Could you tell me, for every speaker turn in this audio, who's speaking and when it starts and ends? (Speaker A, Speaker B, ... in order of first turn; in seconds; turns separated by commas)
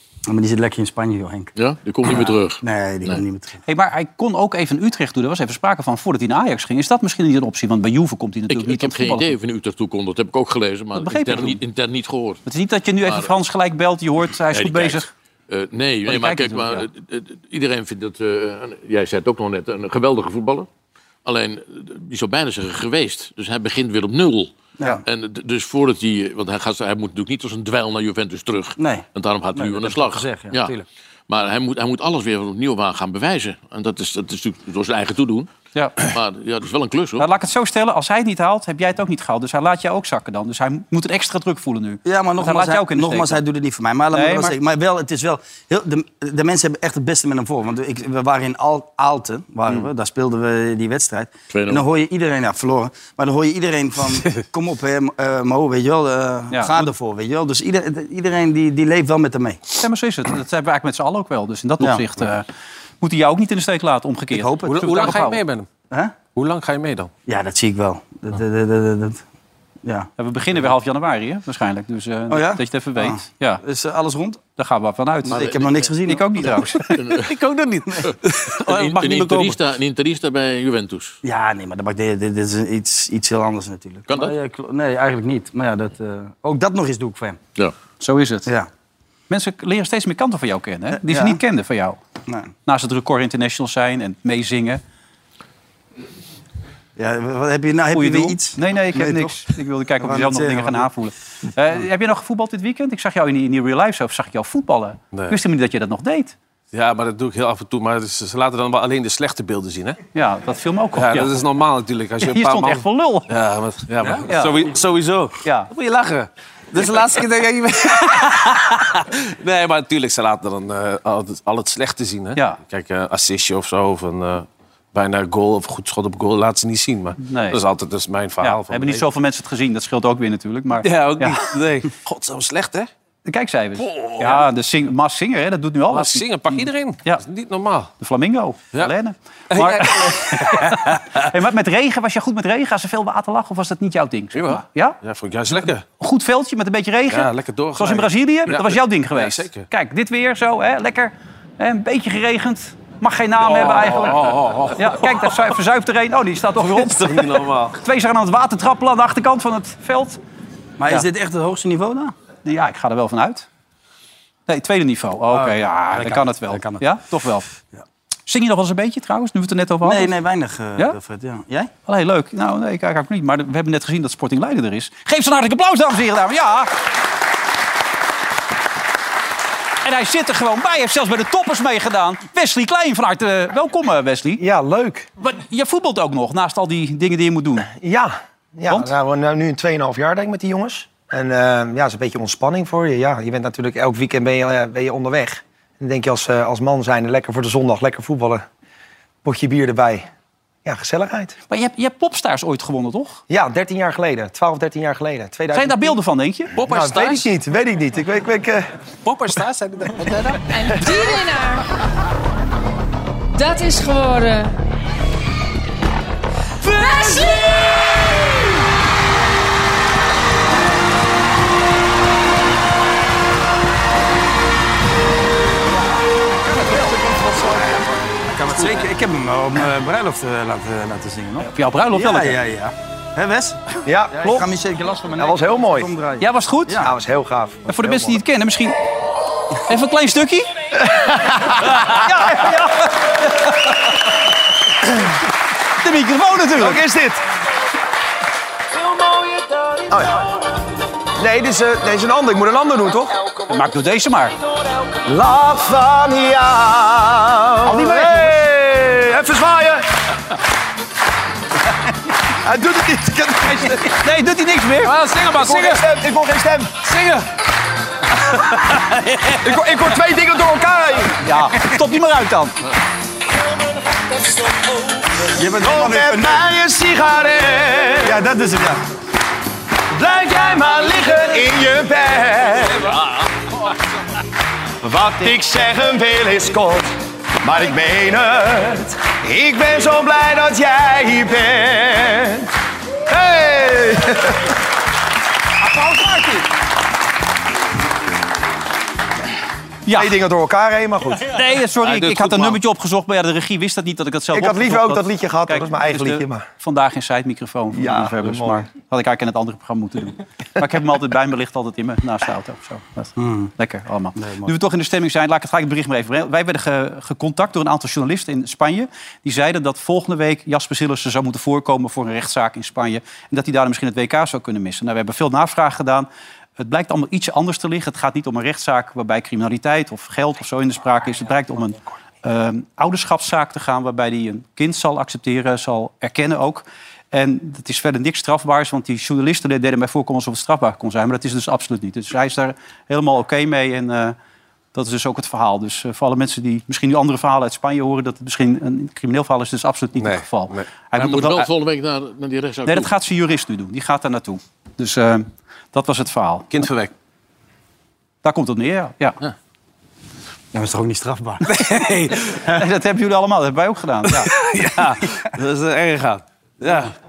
Speaker A: 0.3-1.5, Speaker B: 1.6-3.2, Speaker A: 2.1-3.6, Speaker C: 3.7-9.3, Speaker B: 8.5-12.4, Speaker C: 10.9-11.6, Speaker C: 12.4-15.1, Speaker B: 14.5-20.7, Speaker C: 16.1-16.9, Speaker B: 21.2-24.5, Speaker B: 25.0-30.8, Speaker A: 28.8-29.0, Speaker A: 29.6-30.8, Speaker B: 31.3-37.2, Speaker C: 37.2-43.4, Speaker A: 42.0-59.6, Speaker C: 44.1-44.5, Speaker B: 51.5-51.8, Speaker C: 56.5-56.8, Speaker C: 59.8-62.5, Speaker C: 63.0-65.4, Speaker A: 64.3-64.8, Speaker D: 64.7-65.7, Speaker A: 65.9-66.2, Speaker D: 66.3-67.1, Speaker A: 67.3-69.2, Speaker A: 69.8-70.1, Speaker C: 70.2-73.6, Speaker A: 72.3-74.4, Speaker C: 74.6-77.1, Speaker A: 75.3-76.5, Speaker B: 77.0-77.3, Speaker D: 77.1-79.6, Speaker B: 78.0-81.2, Speaker A: 81.2-87.4, Speaker B: 84.1-84.3, Speaker C: 88.0-88.5, Speaker C: 89.3-92.0, Speaker A: 91.0-91.4, Speaker C: 92.7-94.8, Speaker A: 97.0-100.9, Speaker C: 97.9-106.3, Speaker D: 106.7-110.0, Speaker C: 110.1-111.3, Speaker D: 110.9-129.0, Speaker C: 112.2-113.3, Speaker C: 114.2-114.6, Speaker C: 115.4-115.7, Speaker C: 127.2-127.6, Speaker C: 128.4-131.4, Speaker D: 130.8-132.9, Speaker C: 133.2-137.2, Speaker D: 133.8-134.4, Speaker D: 135.9-137.9, Speaker C: 138.0-145.0, Speaker D: 139.5-141.3, Speaker D: 144.3-145.8, Speaker C: 145.5-160.2, Speaker D: 147.1-149.7, Speaker D: 153.4-155.5, Speaker D: 156.6-157.8, Speaker A: 160.8-162.1, Speaker C: 162.4-163.5, Speaker C: 164.5-167.5, Speaker A: 165.3-166.8, Speaker C: 168.3-170.1, Speaker A: 169.8-171.7, Speaker C: 171.9-176.7, Speaker C: 179.8-184.4, Speaker E: 184.4-185.1, Speaker C: 185.2-187.7, Speaker E: 187.7-198.4, Speaker E: 199.2-200.1, Speaker E: 200.6-201.3, Speaker C: 201.5-203.2, Speaker E: 203.3-206.0, Speaker C: 205.5-206.5, Speaker D: 206.5-207.3, Speaker E: 206.6-208.7, Speaker D: 209.0-210.5, Speaker F: 210.5-211.6, Speaker F: 213.3-214.5, Speaker F: 216.6-217.6, Speaker E: 226.5-227.9, Speaker A: 228.3-236.9, Speaker C: 231.4-232.4, Speaker E: 233.8-234.5, Speaker E: 235.2-235.9, Speaker C: 236.2-236.9, Speaker E: 236.8-238.2, Speaker C: 237.7-238.8, Speaker C: 239.7-240.5, Speaker E: 241.0-241.8, Speaker C: 241.6-243.8, Speaker C: 245.8-246.8, Speaker E: 246.6-247.2, Speaker E: 249.9-250.3, Speaker E: 251.2-253.1, Speaker C: 253.5-254.3, Speaker E: 255.0-259.9, Speaker C: 257.6-258.4, Speaker E: 262.4-263.9, Speaker C: 263.7-265.0, Speaker D: 264.8-265.8, Speaker E: 265.3-266.8, Speaker D: 266.8-267.2, Speaker E: 269.4-271.2, Speaker C: 271.2-272.5, Speaker A: 275.3-276.4, Speaker E: 275.4-278.8, Speaker E: 279.9-283.0, Speaker E: 284.8-292.5, Speaker E: 293.1-294.5, Speaker C: 295.6-296.5, Speaker C: 299.9-300.2, Speaker E: 299.9-301.4, Speaker C: 301.3-326.1, Speaker D: 301.8-302.6, Speaker E: 304.3-306.4, Speaker E: 307.7-308.6, Speaker A: 313.2-313.5, Speaker A: 314.2-314.5, Speaker C: 326.6-344.1, Speaker C: 344.7-351.5, Speaker D: 350.0-350.7, Speaker B: 351.0-352.9, Speaker C: 352.6-356.5, Speaker D: 356.5-356.9, Speaker C: 358.2-359.2, Speaker A: 360.5-361.4, Speaker D: 361.4-362.4, Speaker C: 362.4-364.3, Speaker D: 364.1-366.9